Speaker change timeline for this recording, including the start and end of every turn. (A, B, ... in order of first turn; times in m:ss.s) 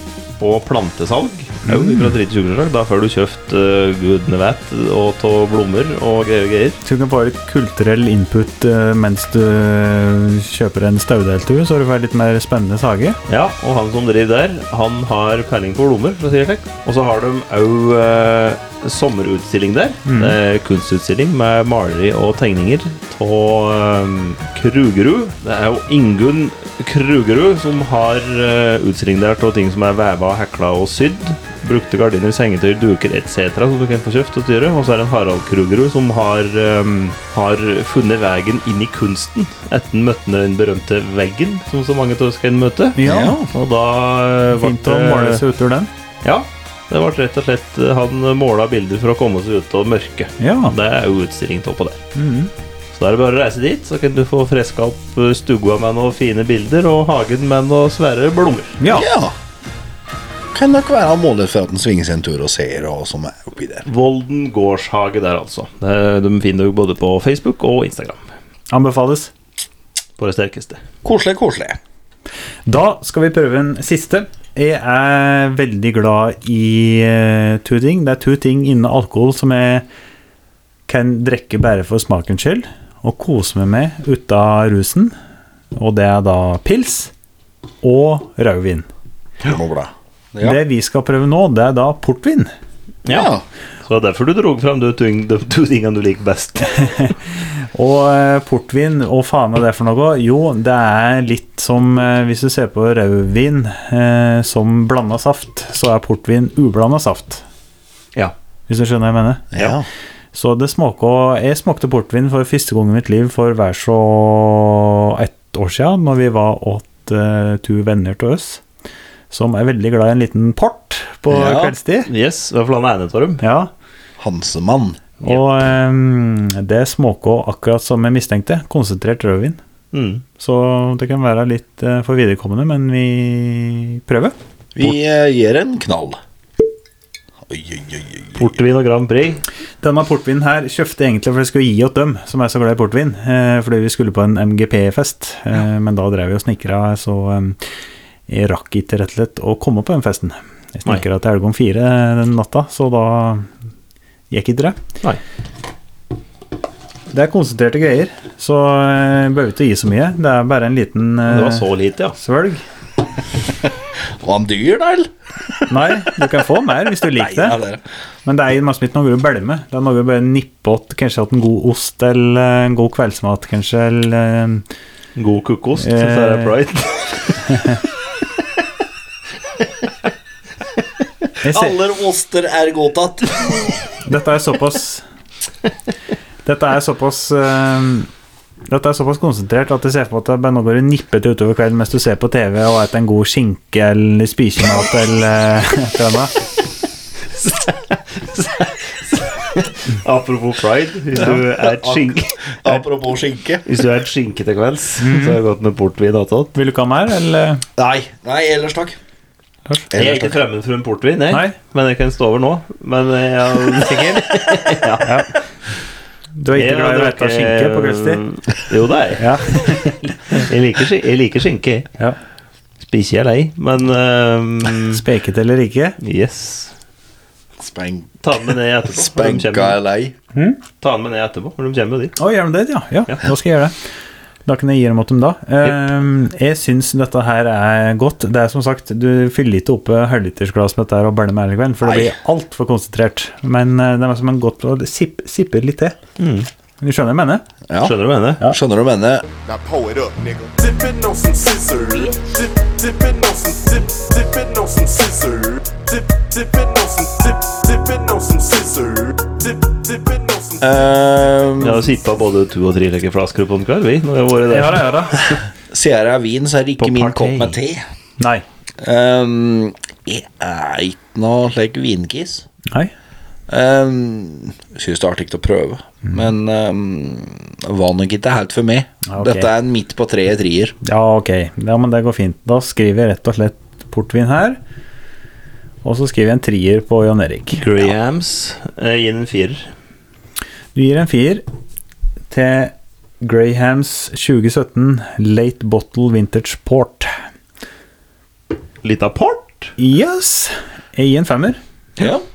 0:00.4-0:06.8 A
0:01.7-0:02.1 B
0:06.8-0:13.2 B
0:13.3-0:45.4 A
0:20.1-0:20.3 B
0:43.0-0:43.4 B
0:43.0-0:43.5 C
0:44.6-0:45.9 B
0:46.2-0:52.0 A
0:50.4-0:50.7 B
0:52.2-0:52.5 B
0:52.9-0:58.8 A
0:58.8-0:59.1 B
0:58.9-0:59.4 C
1:00.5-1:03.9 C
1:03.9-1:08.2 A
1:08.7-1:09.3 B
1:10.2-1:10.8 A
1:11.0-1:11.8 C
1:12.7-1:19.8 B
1:20.9-1:25.1 B
1:25.7-1:27.1 B
1:27.8-1:28.9 B
1:29.4-1:30.6 C
1:30.4-1:32.5 B
1:33.0-1:33.3 A
1:33.1-1:33.4 C
1:33.9-1:37.1 A
1:36.8-1:47.4 B
1:48.7-1:49.8 B
1:49.5-1:49.9 C
1:50.3-1:58.6 B
1:59.3-2:02.1 B
2:01.3-2:01.7 C
2:02.1-2:03.4 A
2:03.4-2:03.7 B
2:04.2-2:05.0 C
2:05.2-2:09.6 B
2:09.9-2:10.2 A
2:10.4-2:14.4 B
2:14.7-2:16.2 C
2:17.5-2:18.5 C
2:18.4-2:19.4 A
2:19.8-2:27.6 B
2:28.3-2:33.5 B
2:34.3-2:34.8 B
2:37.1-2:41.6 B
2:41.3-2:42.2 A
2:42.2-2:42.6 B
2:44.2-2:45.1 C
2:45.7-2:47.6 B
2:47.1-2:47.8 C
2:48.3-2:54.7 B
2:55.2-2:57.5 A
2:55.8-2:56.5 B
2:57.5-2:57.8 B
3:01.4-3:01.7 B
3:01.4-3:03.7 C
3:04.0-3:05.0 B
3:06.4-3:08.1 B
3:08.7-3:16.3 B
3:17.4-3:22.4 A
3:21.2-3:23.6 C
3:23.6-3:26.5 A
3:25.0-3:25.4 B
3:26.6-3:27.6 B
3:27.8-3:29.0 C
3:29.9-3:30.4 C
3:29.9-3:35.4 A
3:35.0-3:35.3 B
3:36.4-3:38.2 B
3:36.5-3:39.3 A
3:39.2-3:40.4 B
3:40.3-3:41.9 A
3:42.8-3:45.0 A
3:44.9-3:46.0 B
3:46.0-3:46.7 A
3:47.6-3:50.1 C
3:48.2-3:49.8 A
3:50.3-3:50.6 B
3:50.8-3:52.2 A
3:52.2-3:53.8 B
3:54.4-4:06.0 B
4:01.8-4:02.2 C
4:06.2-4:06.5 A
4:06.8-4:07.4 B
4:07.7-4:09.3 C
4:07.8-4:08.4 A
4:09.4-4:20.6 D
4:20.6-4:21.9 C
4:21.6-4:24.9 A
4:24.5-4:25.2 B
4:25.7-4:27.8 C
4:26.8-4:27.6 A
4:28.2-4:28.4 B
4:28.8-4:32.4 C
4:33.5-4:40.7 C
4:39.1-4:39.5 B
4:40.8-4:44.6 B
4:45.8-4:47.6 B
4:47.6-4:49.7 A
4:50.7-4:51.4 B
4:52.3-4:57.1 B
4:58.8-4:59.7 A
4:59.8-5:01.6 B
5:02.0-5:02.2 C